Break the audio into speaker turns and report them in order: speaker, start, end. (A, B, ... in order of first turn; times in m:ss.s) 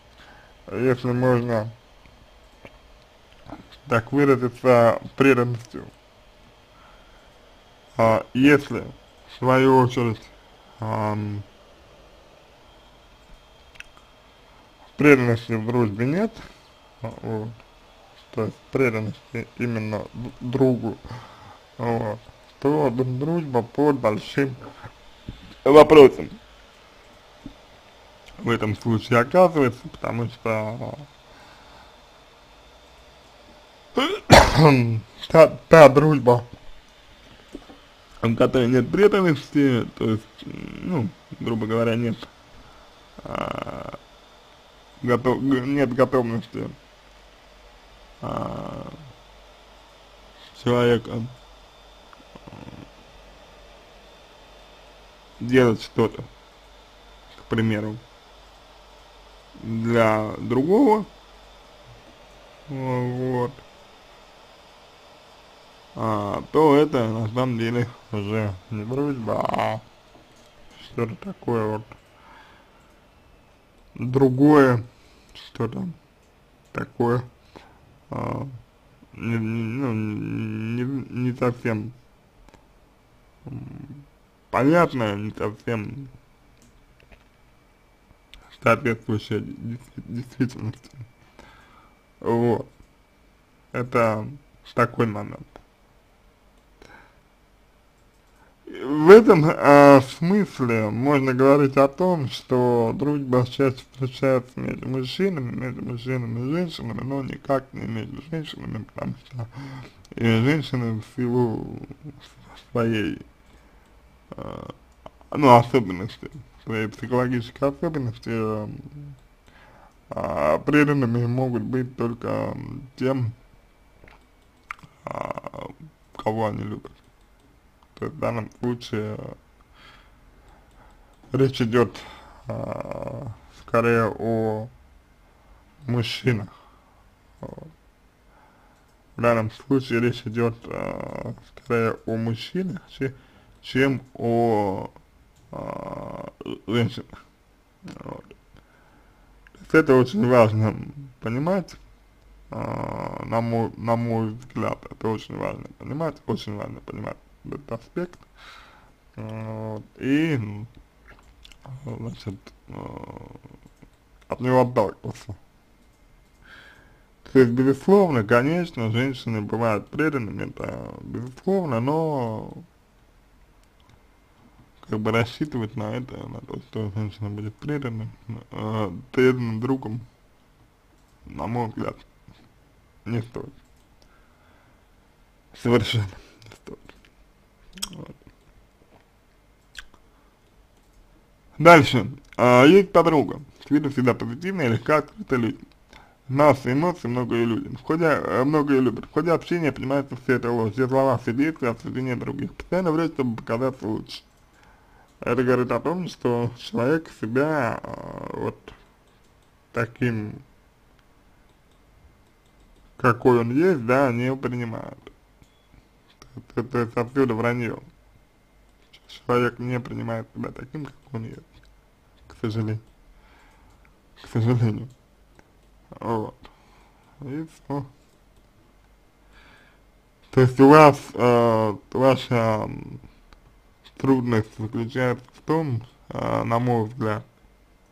0:00.7-0:01.7 A
0:03.8-0:05.9 A
0:08.0-0:11.4 A
0:15.0-0:16.4 A
0:17.0-0:17.6 A
0:18.3-0:21.0 A
0:21.8-0:24.6 A
0:25.6-0:26.4 A
0:28.4-0:31.1 A
0:34.0-0:36.5 A
0:38.2-0:42.3 A
0:43.2-0:44.0 A
0:45.0-0:46.8 A
0:48.2-0:49.0 A
0:50.5-0:51.3 A
0:55.4-0:56.3 A
0:57.3-0:58.0 A
0:59.6-1:01.1 A
1:02.7-1:03.6 A
1:05.9-1:09.8 A
1:10.8-1:12.0 A
1:14.0-1:14.8 A
1:15.4-1:16.0 A
1:16.7-1:17.3 A
1:18.1-1:18.6 A
1:19.1-1:21.9 A
1:23.4-1:26.1 A
1:28.6-1:31.0 A
1:32.2-1:32.7 A
1:33.7-1:35.5 A
1:38.7-1:53.2 A
1:54.3-1:54.8 A
1:55.3-1:59.2 A
2:00.1-2:03.3 A
2:05.0-2:07.0 A
2:08.0-2:09.4 A
2:11.3-2:14.7 A
2:15.8-2:16.5 A
2:17.4-2:17.7 A
2:19.2-2:24.9 A
2:25.5-2:27.2 A
2:27.8-2:28.3 A
2:29.6-2:31.8 A
2:32.5-2:38.2 A
2:39.2-2:40.7 A
2:41.6-2:43.4 A
2:44.3-2:45.4 A
2:47.2-2:52.6 A
2:54.8-3:00.1 A
3:01.2-3:02.0 A
3:03.0-3:03.6 A
3:05.5-3:06.9 A
3:07.8-3:08.2 A
3:11.6-3:15.6 A
3:16.3-3:24.2 A
3:25.2-3:28.7 A
3:29.7-3:30.4 A
3:33.0-3:35.1 A
3:36.3-3:37.9 A
3:39.0-3:41.5 A
3:42.2-3:42.8 A
3:44.2-3:44.9 A
3:46.0-3:46.4 A
3:47.2-3:47.9 A
3:50.3-3:53.0 A
3:54.0-3:57.2 A